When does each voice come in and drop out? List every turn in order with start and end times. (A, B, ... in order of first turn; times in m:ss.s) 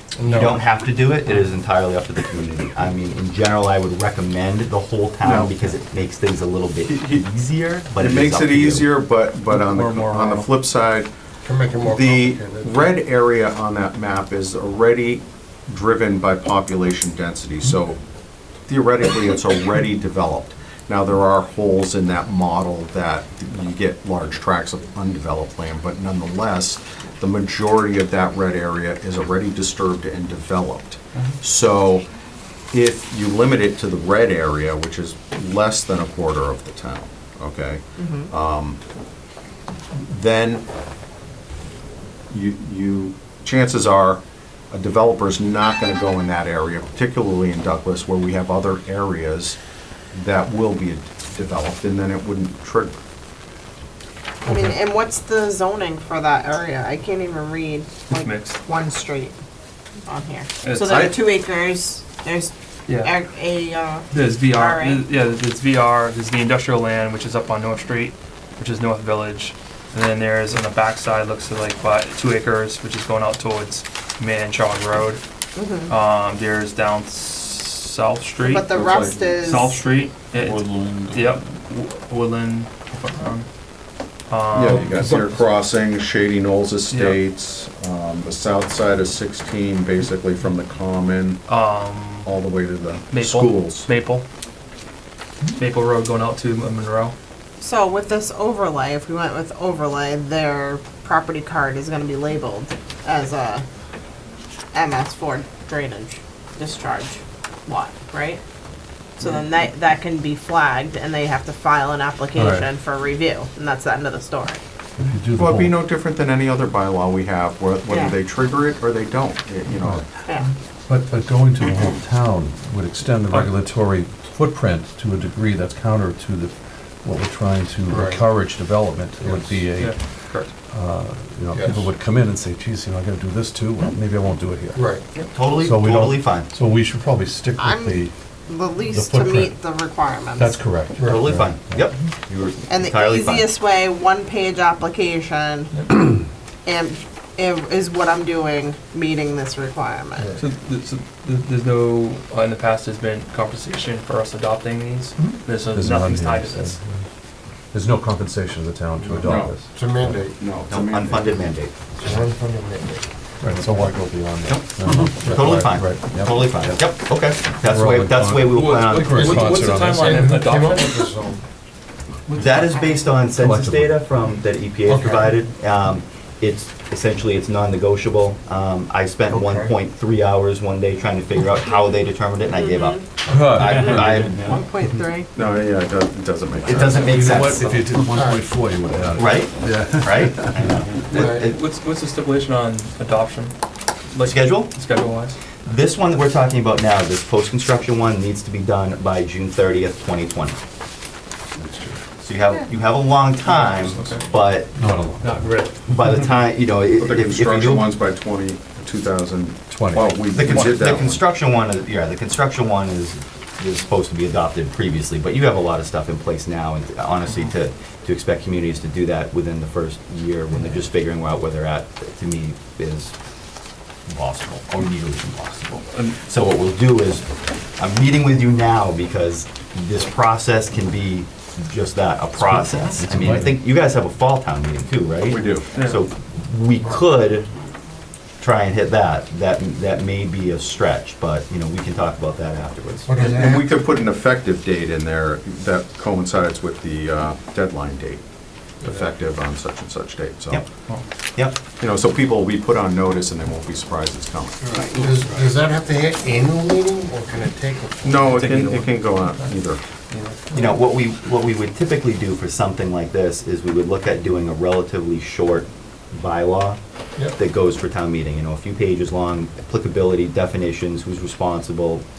0:00.2-0:00.5 A
0:00.3-0:08.9 B
0:05.2-0:05.7 C
0:06.8-0:07.2 C
0:08.0-0:11.1 C
0:09.5-0:10.5 D
0:11.4-0:12.8 A
0:11.8-0:18.0 C
0:18.7-0:32.0 C
0:32.7-0:38.8 C
0:38.0-0:38.3 E
0:39.9-0:40.6 C
0:42.3-0:49.6 C
0:50.1-0:53.0 C
0:54.4-0:59.3 E
0:54.5-0:54.7 F
0:58.1-0:58.6 D
1:00.0-1:05.1 E
1:00.6-1:01.2 D
1:04.1-1:15.2 D
1:15.6-1:15.9 E
1:15.9-1:23.5 D
1:18.4-1:19.8 E
1:24.3-1:25.3 D
1:24.5-1:31.4 C
1:26.9-1:27.2 D
1:31.5-1:32.3 D
1:32.2-1:33.9 C
1:33.1-1:34.2 D
1:35.5-1:37.1 D
1:37.6-1:43.6 E
1:44.7-1:48.4 E
1:49.2-1:54.6 E
1:52.4-1:52.7 F
1:55.0-1:55.8 F
1:55.3-2:00.0 C
1:57.9-1:58.1 E
2:00.9-2:14.9 F
2:07.9-2:08.2 A
2:09.8-2:10.5 D
2:11.5-2:11.9 A
2:14.7-2:15.0 A
2:15.2-2:16.5 B
2:15.6-2:18.1 F
2:17.6-2:20.6 E
2:18.9-2:19.6 F
2:20.4-2:21.8 F
2:21.0-2:23.5 B
2:22.7-2:25.9 E
2:26.6-2:30.3 E
2:30.4-2:36.8 D
2:35.2-2:36.8 F
2:37.7-2:40.2 F
2:39.1-2:39.6 C
2:39.7-2:40.3 A
2:40.3-2:41.3 C
2:40.7-2:41.7 B
2:42.0-2:43.0 A
2:43.4-2:46.4 F
2:44.5-2:49.6 B
2:47.6-2:50.2 F
2:48.5-2:51.1 D
2:50.0-2:51.4 A
2:52.3-2:52.9 D
2:52.3-3:04.6 B
2:53.4-2:53.9 F
2:54.9-2:55.3 A
2:59.3-2:59.7 A
3:02.5-3:03.0 E
3:03.3-3:04.3 F
3:03.6-3:05.3 E
3:05.3-3:07.1 C
3:06.6-3:08.0 B
3:06.7-3:10.9 F
3:08.1-3:08.4 A
3:09.2-3:11.6 B
3:11.1-3:13.5 D
3:14.1-3:15.4 D
3:14.2-3:14.7 B
3:15.6-3:20.6 B
3:21.6-3:22.0 F
3:22.2-3:24.7 B
3:23.8-3:24.2 C
3:24.8-3:25.5 F
3:25.8-3:27.9 B
3:27.0-3:31.2 C
3:29.7-3:30.2 F
3:30.3-3:43.1 B
3:44.1-3:47.2 B
3:47.8-3:57.5 B
3:52.4-3:53.6 F
3:55.3-3:55.7 C
3:55.7-3:56.0 D
3:58.4-4:03.1 B
4:03.1-4:03.7 A
4:03.2-4:08.2 C
4:08.8-4:10.6 C
4:11.4-4:11.6 B
4:11.8-4:14.8 C
4:14.7-4:15.1 D
4:14.9-4:18.5 A
4:18.0-4:19.8 C
4:18.4-4:19.2 D
4:20.1-4:20.4 D
4:20.5-4:26.8 B
4:27.4-4:32.0 B